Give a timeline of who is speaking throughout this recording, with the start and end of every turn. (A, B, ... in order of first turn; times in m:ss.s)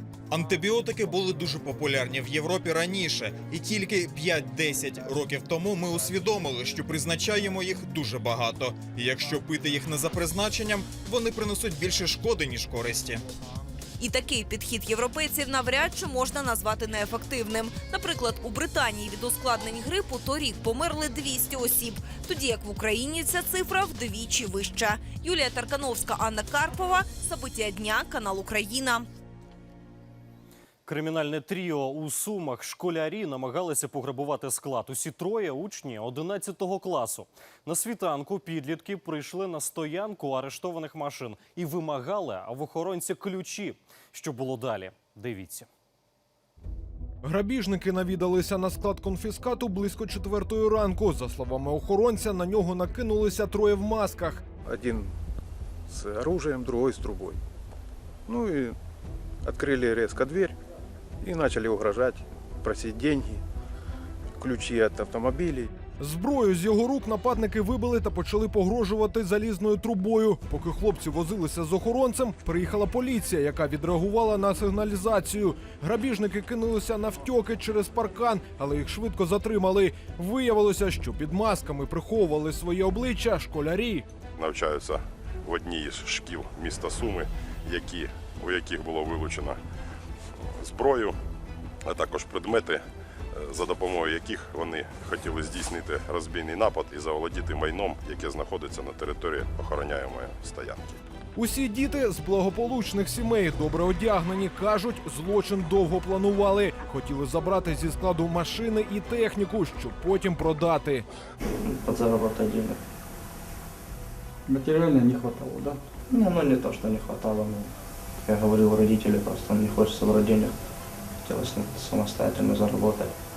0:00.3-0:13.2 A
0:14.0-0:29.1 B
0:30.9-0:45.7 C
0:47.2-0:54.5 D
0:54.7-0:55.1 E
0:55.9-0:57.4 E
0:58.3-0:58.7 E
0:59.5-1:00.5 E
1:01.3-1:03.4 E
1:04.4-1:05.7 E
1:06.0-1:24.0 D
1:24.4-1:29.6 F
1:30.6-1:31.2 F
1:31.8-1:41.0 F
1:41.4-1:51.0 D
1:51.6-1:52.8 G
1:56.1-1:57.7 G
1:58.2-2:00.5 G
2:01.2-2:03.1 G